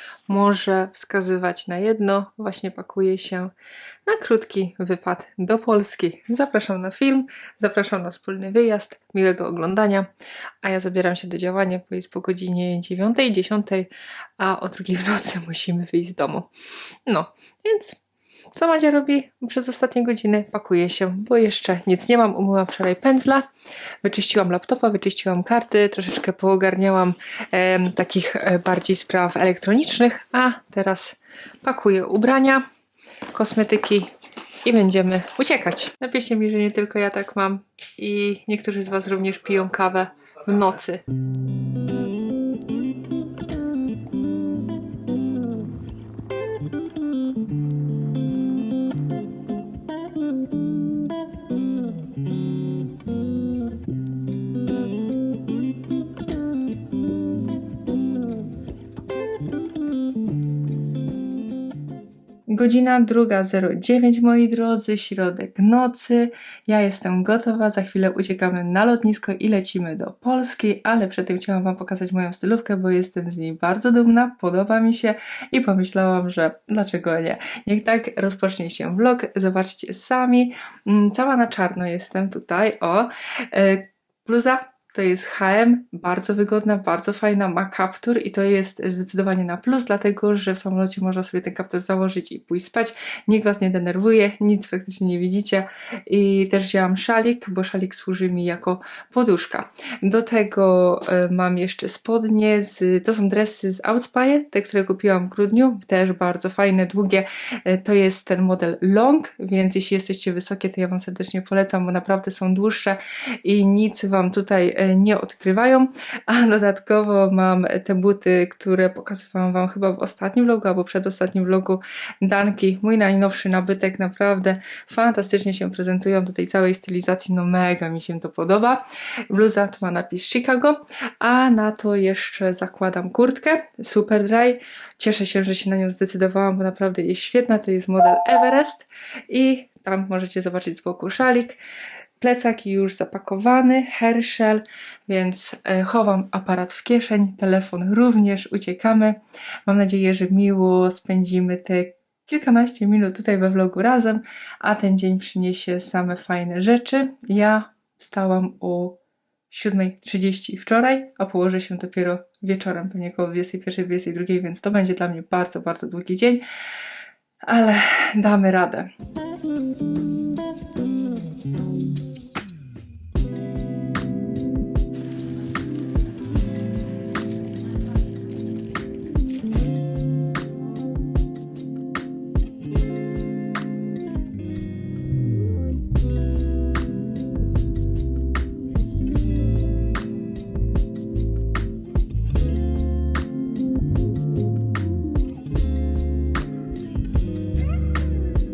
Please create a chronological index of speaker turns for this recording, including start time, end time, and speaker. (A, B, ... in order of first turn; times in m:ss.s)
0:00.3-0:03.5 A
0:04.0-0:10.1 A
0:10.6-0:16.5 A
0:17.1-0:18.0 A
0:18.5-0:23.5 A
0:24.0-0:32.6 A
0:33.3-0:34.1 A
0:34.6-0:41.0 A
1:02.5-2:21.6 A
2:22.2-2:39.0 A
2:39.5-2:46.4 A
2:47.4-2:48.9 A